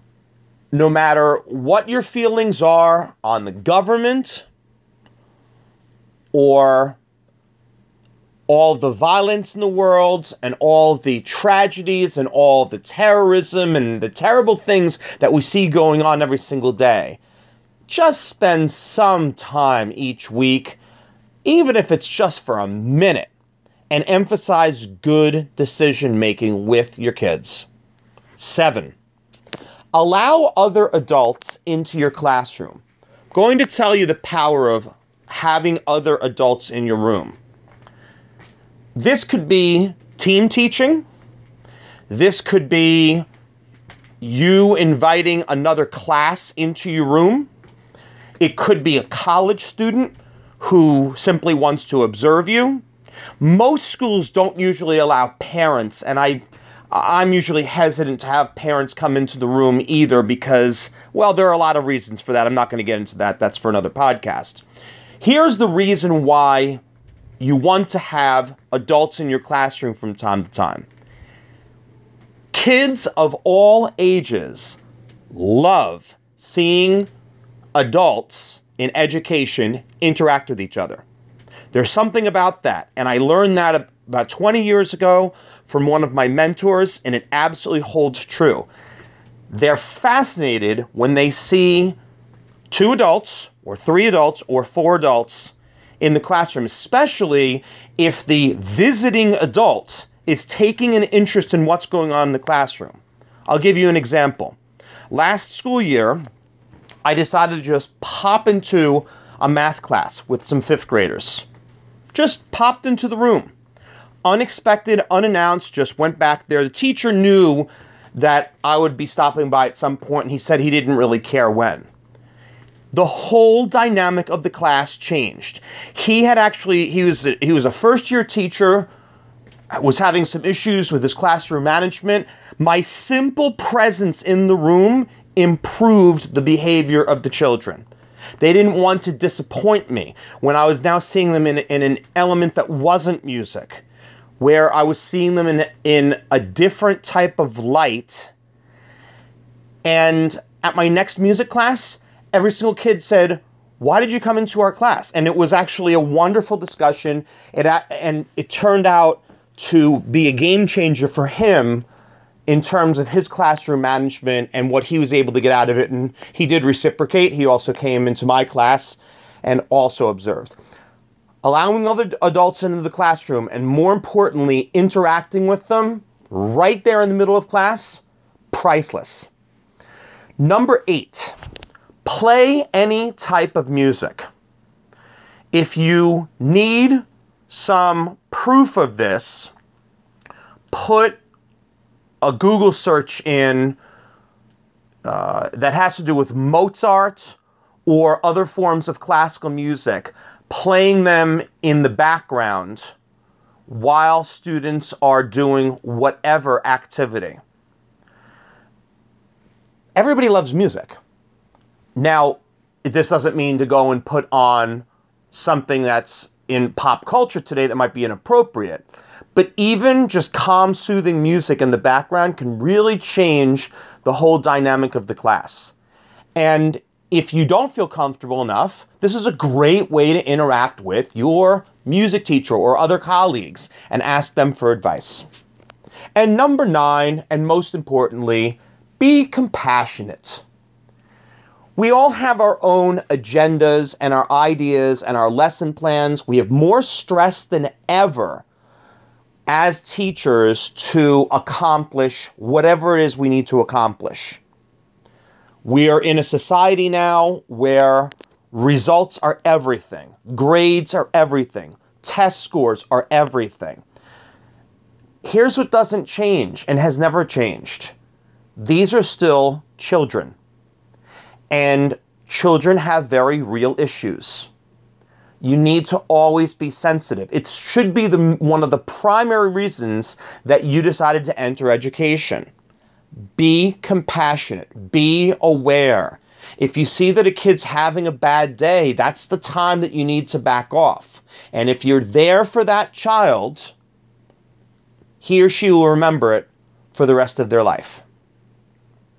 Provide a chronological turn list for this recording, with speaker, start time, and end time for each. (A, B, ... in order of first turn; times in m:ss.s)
0:00.7-0:04.4 A
0:06.3-0:07.0 A
0:08.5-0:17.2 A
0:17.9-0:20.8 A
0:21.4-0:23.3 A
0:23.9-0:27.7 A
0:28.4-0:28.9 A
0:29.9-0:37.4 A
0:38.9-0:41.0 A
0:42.1-0:43.2 A
0:44.2-0:47.5 A
0:48.4-0:52.8 A
0:53.4-1:04.6 A
1:05.2-1:06.8 A
1:07.4-1:10.9 A
1:12.5-1:14.8 A
1:15.3-1:17.1 A
1:17.7-1:21.0 A
1:21.7-1:28.7 A
1:29.5-1:32.0 A
1:32.7-1:44.6 A
1:45.1-1:46.2 A
1:47.0-1:51.4 A
1:52.1-1:53.5 A
1:54.2-2:01.9 A
2:02.9-2:08.9 A
2:09.7-2:17.8 A
2:18.4-2:23.8 A
2:24.4-2:28.3 A
2:29.8-2:41.8 A
2:42.5-2:50.6 A
2:51.4-2:59.3 A
3:00.4-3:01.3 A
3:02.0-3:04.3 A
3:05.5-3:09.5 A
3:10.7-3:11.2 A
3:12.2-3:13.8 A
3:15.0-3:22.9 A
3:23.7-3:27.4 A
3:30.0-3:31.0 A
3:32.0-3:45.7 A
3:46.4-3:55.3 A
3:56.1-4:00.4 A
4:01.8-4:08.4 A
4:09.5-4:14.4 A
4:15.6-4:23.8 A
4:25.2-4:27.9 A
4:28.6-4:30.4 A
4:31.5-4:34.5 A
4:35.4-4:42.5 A
4:43.4-4:53.7 A
4:55.2-4:58.0 A